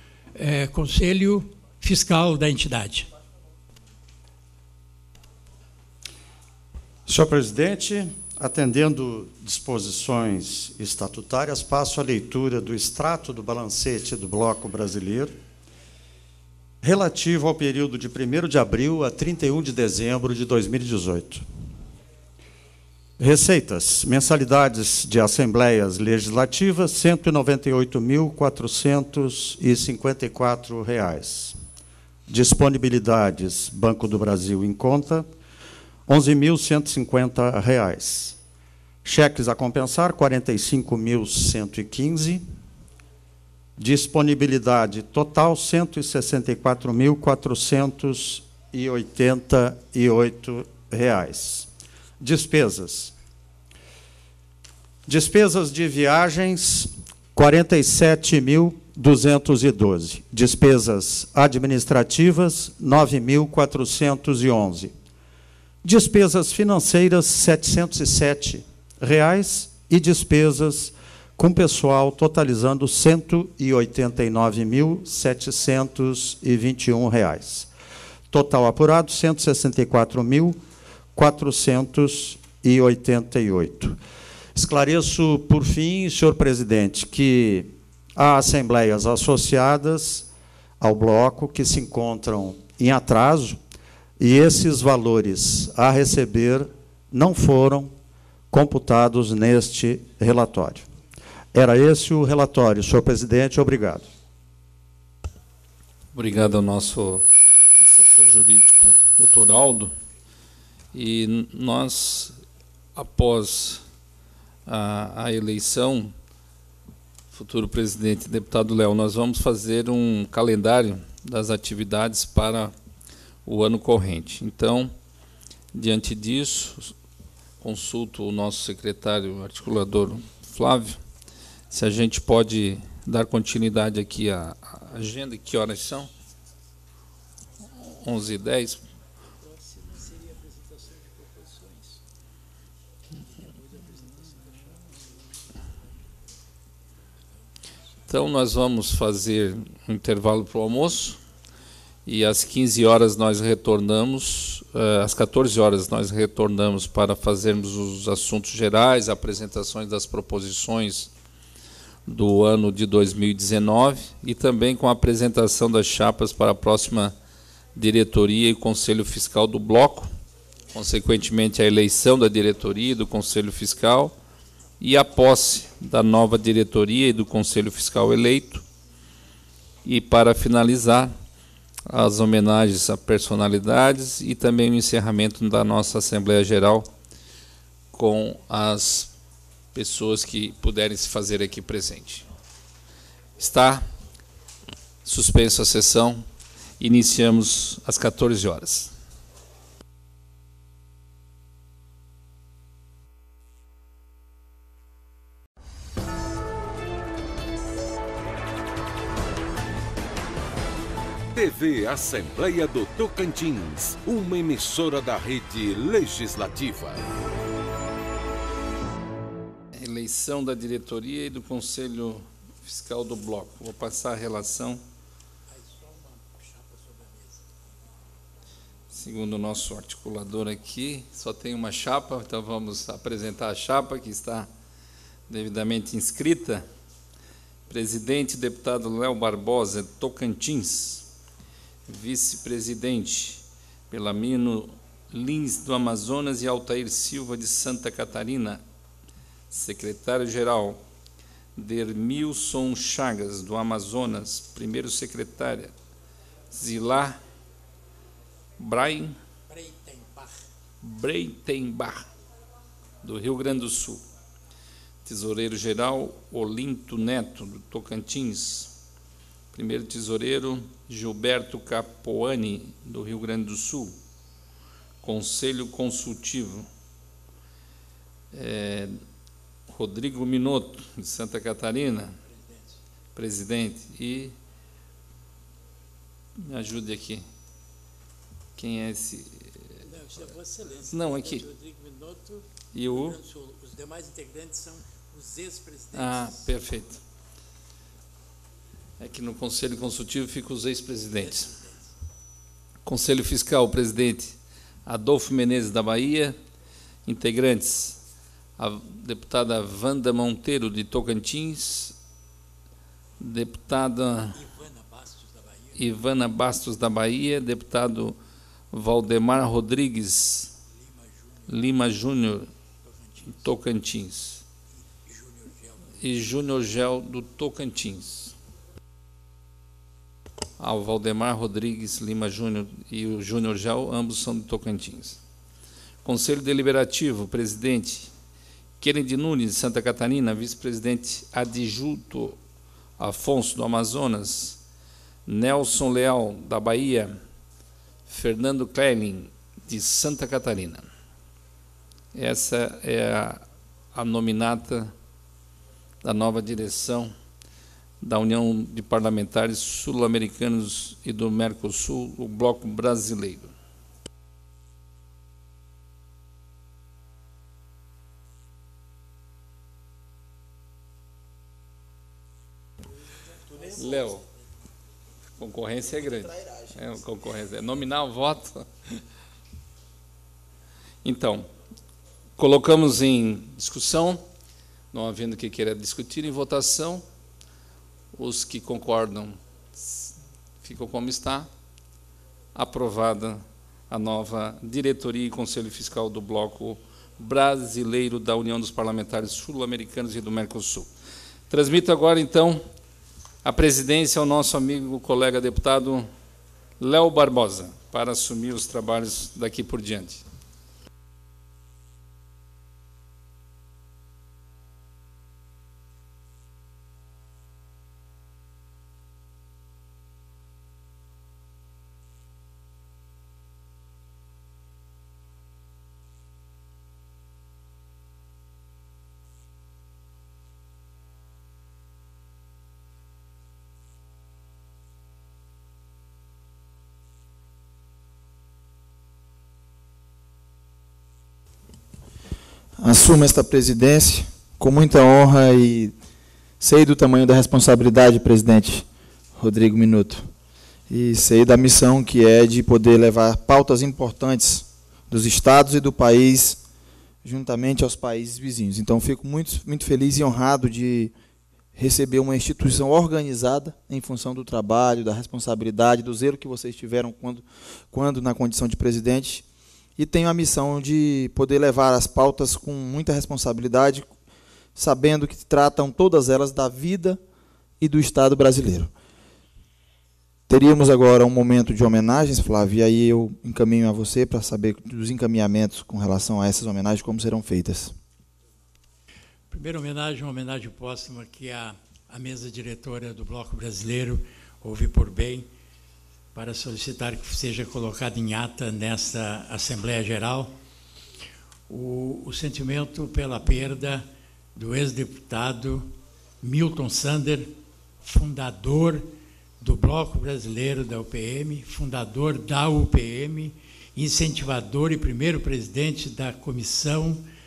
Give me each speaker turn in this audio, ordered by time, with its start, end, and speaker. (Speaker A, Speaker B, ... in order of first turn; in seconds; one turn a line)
Speaker A: 0.4-3.1
Speaker B: 7.1-15.4
Speaker B: 16.8-21.4
Speaker B: 23.2-31.6
Speaker B: 32.3-35.3
Speaker B: 36.1-38.4
Speaker B: 39.0-42.5
Speaker B: 43.8-51.7
Speaker B: 52.2-53.1
Speaker B: 55.1-64.9
Speaker B: 65.8-77.7
Speaker B: 78.3-80.6
Speaker B: 81.2-84.0
Speaker B: 84.5-90.3
Speaker B: 90.8-93.6
Speaker B: 94.2-97.9
Speaker B: 98.5-100.9
Speaker B: 101.5-104.1
Speaker C: 106.1-107.2
Speaker C: 107.8-109.9
Speaker C: 110.9-112.4
Speaker C: 113.0-113.8
Speaker C: 114.7-116.1
Speaker C: 117.3-122.7
Speaker C: 123.5-124.9
Speaker C: 125.7-126.9
Speaker C: 127.6-131.0
Speaker C: 131.7-136.1
Speaker C: 137.8-138.8
Speaker C: 148.1-151.2
Speaker C: 152.1-161.1
Speaker C: 162.1-167.2
Speaker C: 167.8-170.1
Speaker C: 170.7-174.2
Speaker C: 174.8-178.6
Speaker C: 179.8-181.1
Speaker C: 181.9-186.9
Speaker C: 187.9-189.1
Speaker C: 189.8-192.3
Speaker C: 193.4-193.9
Speaker C: 195.1-196.2
Speaker C: 196.8-198.9
Speaker D: 211.3-217.0
Speaker C: 219.7-224.8
Speaker A: 225.5-227.4
Speaker C: 228.9-234.5
Speaker C: 235.3-236.7
Speaker C: 237.7-241.1
Speaker C: 241.9-248.6
Speaker C: 249.5-250.8
Speaker C: 251.6-255.7
Speaker C: 256.5-257.2
Speaker C: 258.6-259.2
Speaker A: 259.5-260.4
Speaker C: 260.8-262.1
Speaker C: 263.0-264.0
Speaker C: 265.1-268.7
Speaker C: 269.5-273.9
Speaker C: 275.0-276.7
Speaker C: 278.3-279.0
Speaker C: 279.7-282.2
Speaker A: 282.3-282.8
Speaker C: 283.1-284.4
Speaker C: 286.4-287.2
Speaker C: 288.6-289.8
Speaker A: 289.9-296.5
Speaker C: 290.9-291.5
Speaker C: 292.7-293.2
Speaker C: 295.9-297.0
Speaker C: 299.0-301.5
Speaker A: 301.2-301.7
Speaker C: 302.9-306.4
Speaker C: 307.1-308.0
Speaker C: 308.6-312.0
Speaker C: 313.2-314.4
Speaker A: 314.4-315.8
Speaker C: 315.8-318.2
Speaker C: 318.7-320.6
Speaker A: 320.8-321.5
Speaker C: 321.5-322.5
Speaker A: 322.8-323.4
Speaker C: 323.3-324.4
Speaker A: 325.1-325.9
Speaker C: 326.0-328.4
Speaker C: 330.6-335.2
Speaker C: 336.0-338.1
Speaker C: 338.8-342.4
Speaker C: 343.0-344.6
Speaker C: 345.3-347.2
Speaker C: 348.1-350.9
Speaker C: 352.1-354.9
Speaker C: 356.0-357.1
Speaker C: 358.0-363.5
Speaker C: 373.7-374.2
Speaker C: 375.4-378.7
Speaker C: 381.0-381.5
Speaker C: 382.4-384.3
Speaker C: 384.9-387.1
Speaker C: 388.1-391.5
Speaker C: 392.6-400.9
Speaker C: 401.5-402.6
Speaker C: 403.4-406.1
Speaker C: 406.8-410.2
Speaker E: 442.8-445.9
Speaker E: 446.6-448.9
Speaker E: 449.4-450.3
Speaker E: 450.9-456.6
Speaker E: 457.2-461.1
Speaker E: 461.8-469.4
Speaker E: 470.0-474.1
Speaker E: 474.8-477.2
Speaker E: 477.8-478.9
Speaker E: 480.5-487.9
Speaker A: 489.5-495.5
Speaker A: 496.3-500.5
Speaker A: 501.7-507.5
Speaker A: 508.0-509.1
Speaker A: 509.6-517.2